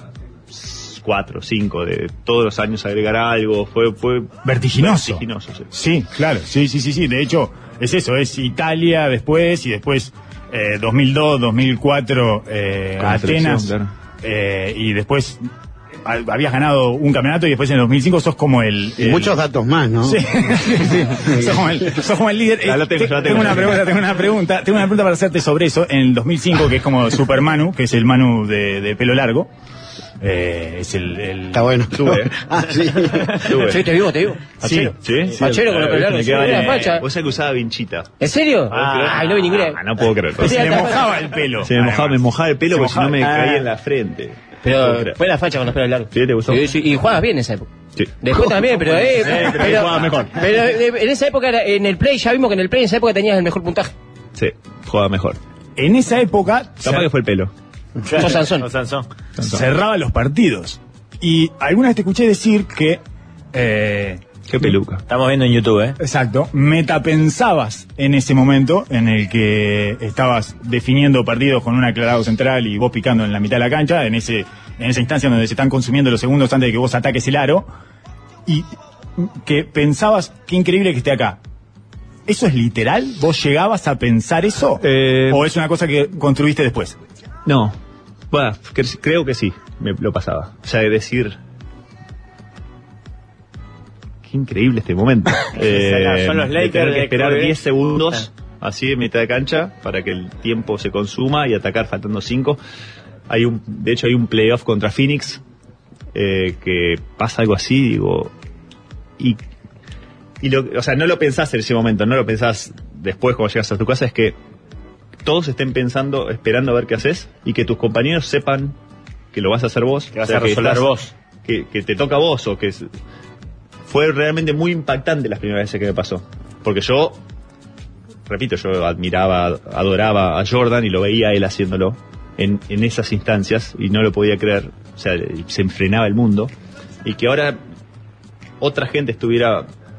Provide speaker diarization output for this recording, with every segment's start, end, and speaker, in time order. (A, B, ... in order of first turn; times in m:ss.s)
0:00.5-0:05.7 A
0:04.4-0:15.4 B
0:13.0-0:13.9 A
0:16.0-0:19.4 B
0:19.0-0:21.6 C
0:20.0-0:29.5 B
0:22.6-0:23.9 A
0:30.2-0:31.6 B
0:31.5-0:33.4 C
0:31.9-0:32.4 A
0:33.4-0:33.9 A
0:33.6-0:37.0 D
0:34.6-0:35.0 B
0:34.7-0:38.1 A
0:38.2-0:39.8 D
0:38.7-0:40.8 A
0:38.7-0:39.4 E
0:40.4-0:41.1 D
0:40.4-0:43.3 B
0:41.6-0:45.2 A
0:44.6-0:47.7 D
0:46.1-0:46.7 A
0:48.0-0:50.3 A
0:48.2-0:53.9 D
0:48.9-0:50.4 E
0:54.4-0:55.4 A
0:55.8-0:57.0 B
0:56.8-0:57.5 A
0:58.0-0:59.1 E
0:58.2-0:58.7 D
0:59.4-0:59.6 A
0:59.4-1:03.0 B
1:03.5-1:04.2 B
1:04.5-1:05.0 A
1:05.1-1:06.0 E
1:06.0-1:17.7 B
1:18.5-1:21.4 B
1:22.3-1:27.0 B
1:24.8-1:25.4 A
1:27.4-1:27.8 A
1:28.3-1:31.4 A
1:34.2-1:42.6 A
1:35.5-1:37.6 E
1:43.3-1:45.4 A
1:46.1-1:48.3 A
1:50.4-1:54.4 A
1:55.2-1:58.8 A
1:59.3-2:00.9 A
2:00.1-2:01.1 E
2:01.4-2:02.9 A
2:03.9-2:07.2 A
2:08.3-2:16.5 A
2:17.0-2:17.6 A
2:18.6-2:19.7 A